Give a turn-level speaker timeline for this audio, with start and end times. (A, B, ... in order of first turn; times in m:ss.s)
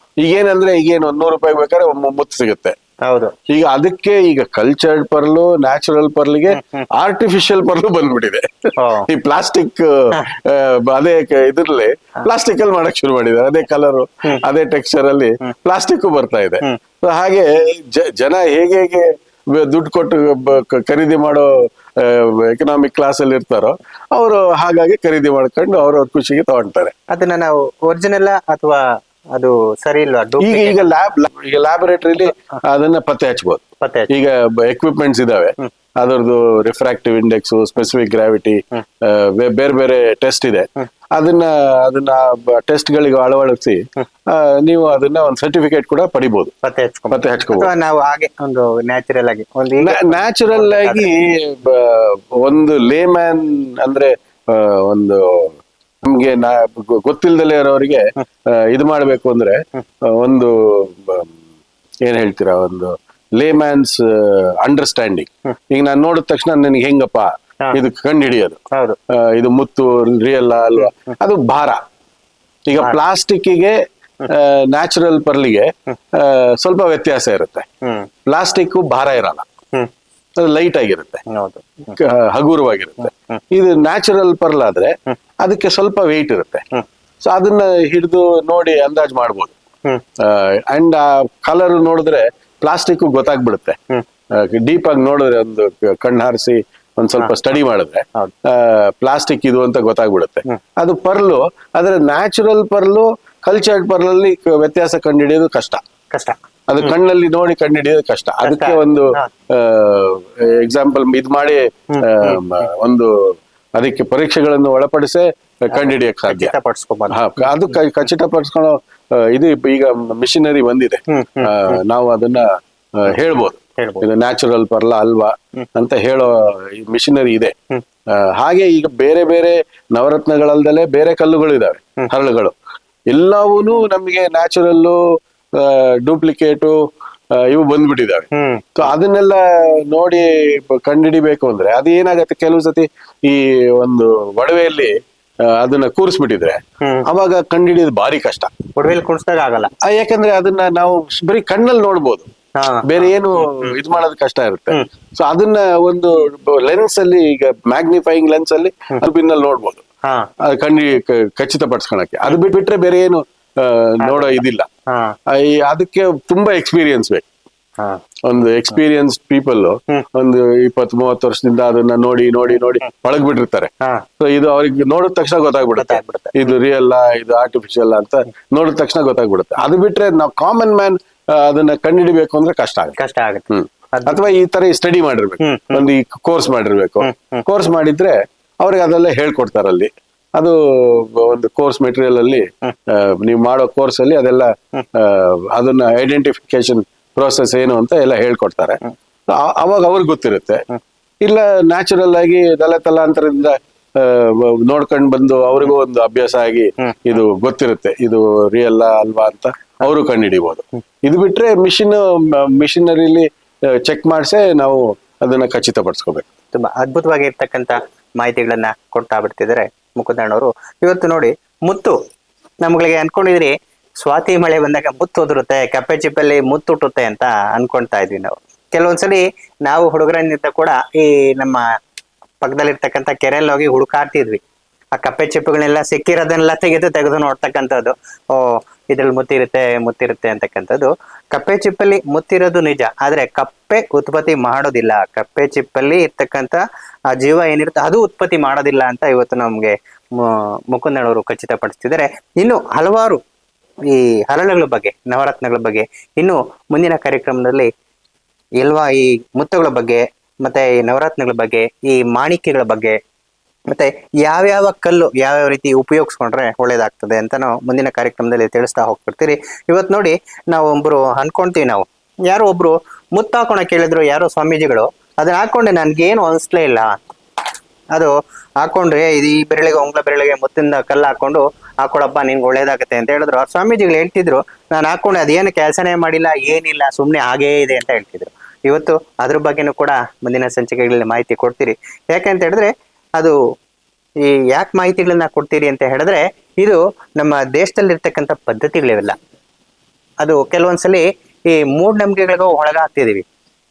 0:00.2-0:02.8 A
0:03.0-0:03.3 B
0:03.5-0:26.9 A
0:06.5-0:06.8 B
0:08.8-0:09.1 B
0:27.1-0:28.8 B
0:29.4-0:30.9 B
0:30.4-0:46.5 A
0:33.8-0:34.1 B
0:46.6-0:51.1 B
0:47.1-0:47.7 A
0:49.8-1:01.3 A
1:02.0-1:08.6 A
1:08.7-1:09.0 B
1:09.1-1:11.8 A
1:12.7-1:17.7 A
1:17.8-1:18.1 B
1:18.3-1:19.4 A
1:20.4-1:21.2 A
1:21.3-1:21.9 B
1:21.9-1:26.6 A
1:23.0-1:23.4 B
1:27.2-1:29.5 A
1:30.2-1:33.8 A
1:34.3-1:45.8 A
1:46.1-1:46.9 B
1:46.7-1:56.5 A
1:48.4-1:49.3 B
1:51.9-1:52.6 B
1:55.7-1:57.8 B
1:57.1-2:07.5 A
2:01.1-2:01.8 B
2:03.8-2:04.0 B
2:08.1-2:12.6 A
2:13.1-2:15.0 A
2:15.5-2:16.8 A
2:17.4-2:24.9 A
2:18.3-2:18.7 B
2:25.4-2:28.5 A
2:26.8-2:27.1 B
2:28.8-2:29.7 B
2:29.8-2:32.3 A
2:32.6-2:33.7 B
2:32.8-2:39.8 A
2:40.4-2:44.7 A
2:44.0-2:45.2 B
2:45.3-2:47.2 A
2:48.3-3:03.0 A
2:55.8-2:56.6 B
3:03.0-3:04.2 B
3:03.5-3:18.8 A
3:05.4-3:05.9 B
3:07.0-3:07.4 B
3:19.3-3:20.6 A
3:21.2-3:36.2 A
3:26.8-3:27.1 B
3:36.5-3:42.0 B
3:42.6-3:51.7 B
3:52.4-3:54.4 B
3:55.0-4:06.6 B
4:07.1-4:13.2 B
4:13.9-4:17.7 B
4:18.6-4:23.0 B
4:23.7-4:37.0 B
4:37.9-4:53.4 B
4:54.2-4:59.2 B
5:00.2-5:03.2 B